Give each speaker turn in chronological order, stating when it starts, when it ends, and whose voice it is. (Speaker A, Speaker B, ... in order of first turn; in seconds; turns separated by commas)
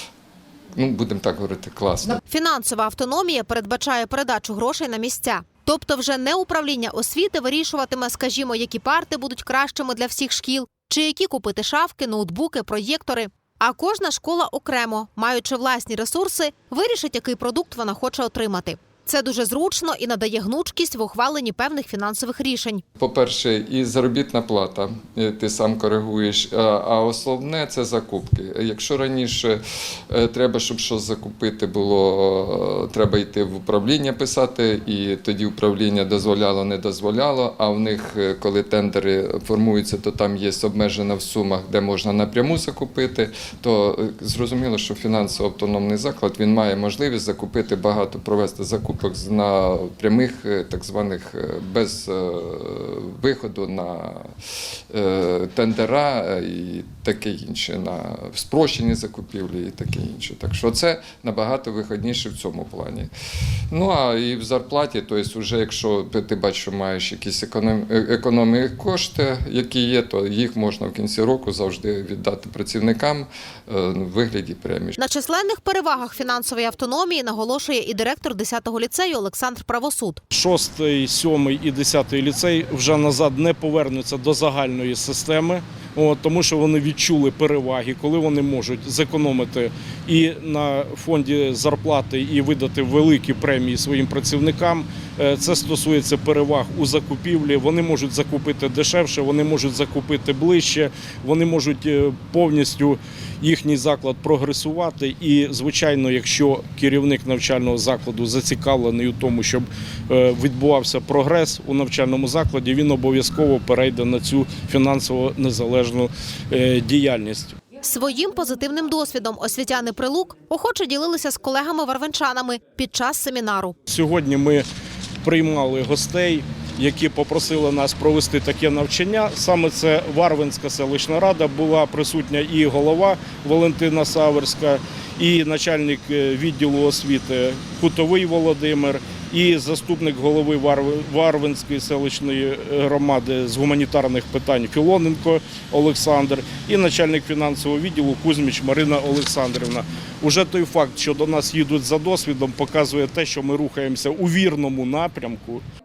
Speaker A: 0.8-2.2, Speaker B: 2.2-22.8, Speaker A: 23.0-29.6, Speaker A: 30.1-54.3, Speaker A: 54.9-63.1, Speaker A: 63.7-75.0, Speaker B: 75.0-80.2, Speaker C: 80.3-117.5, Speaker B: 117.8-123.8, Speaker C: 123.9-124.7, Speaker C: 125.2-155.6